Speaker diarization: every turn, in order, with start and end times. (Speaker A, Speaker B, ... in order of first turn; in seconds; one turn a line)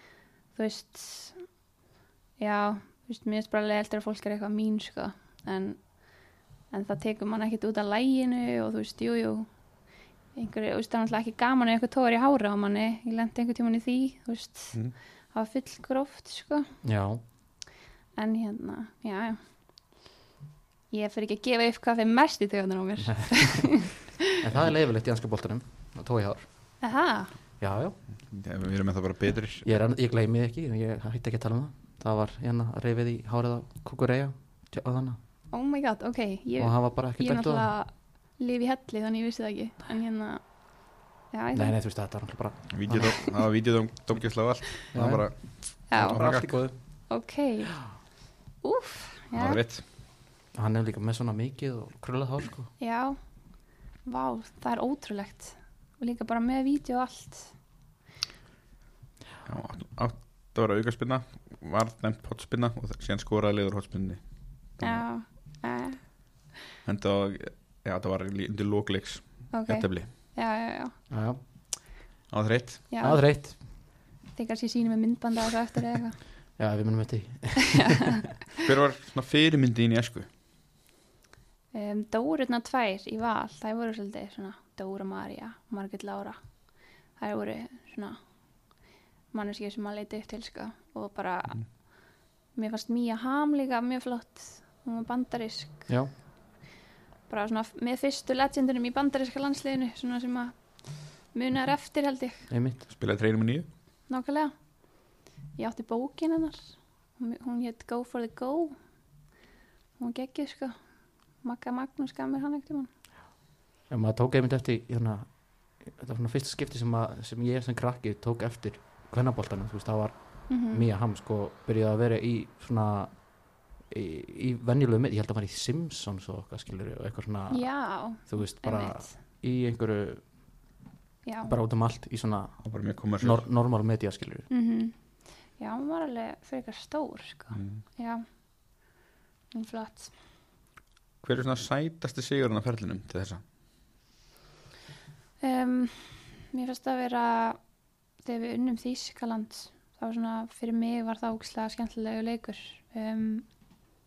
Speaker A: 0.6-1.4
Speaker A: 2.4-5.8
Speaker A: 6.7-9.5
Speaker A: 10.3-14.8
Speaker A: 15.3-16.7
Speaker B: 16.8-17.2
Speaker A: 18.2-19.4
Speaker A: 20.9-24.1
Speaker B: 23.1-23.6
Speaker B: 24.4-26.5
Speaker A: 26.8-27.3
Speaker B: 27.6-28.0
Speaker C: 28.3-29.7
Speaker B: 29.6-35.2
Speaker A: 35.5-40.4
Speaker B: 36.6-37.7
Speaker A: 41.3-41.8
Speaker B: 41.5-43.1
Speaker C: 42.7-45.4
Speaker B: 44.9-45.3
Speaker A: 45.9-46.2
Speaker C: 45.9-46.6
Speaker B: 45.9-46.8
Speaker A: 47.1-47.9
Speaker A: 48.6-49.6
Speaker C: 49.3-49.8
Speaker B: 50.5-52.7
Speaker A: 52.8-53.2
Speaker A: 54.1-57.5
Speaker C: 59.5-64.2
Speaker C: 64.8-65.0
Speaker A: 64.8-66.0
Speaker C: 66.8-70.1
Speaker A: 69.5-71.0
Speaker B: 71.1-71.4
Speaker C: 72.3-72.9
Speaker A: 72.9-73.2
Speaker B: 73.0-73.6
Speaker A: 74.4-76.2
Speaker B: 76.6-78.2
Speaker A: 77.7-78.1
Speaker C: 78.6-80.3
Speaker A: 81.7-86.4
Speaker A: 87.2-88.2
Speaker A: 89.3-91.7
Speaker A: 92.5-95.9
Speaker A: 97.3-100.5
Speaker A: 101.3-102.5
Speaker B: 102.5-102.8
Speaker C: 102.9-103.7
Speaker A: 104.1-104.5
Speaker A: 105.6-108.8
Speaker A: 110.0-110.8
Speaker A: 111.4-112.9
Speaker B: 113.9-123.2
Speaker A: 120.5-120.8
Speaker B: 123.9-127.7
Speaker A: 127.5-129.1
Speaker B: 128.3-130.3
Speaker A: 131.2-131.5
Speaker B: 131.5-132.6
Speaker C: 132.6-133.4
Speaker B: 133.2-134.5
Speaker A: 134.5-134.9
Speaker A: 135.6-138.3
Speaker A: 139.5-140.1
Speaker C: 141.2-143.4
Speaker A: 145.4-147.6
Speaker A: 148.2-153.5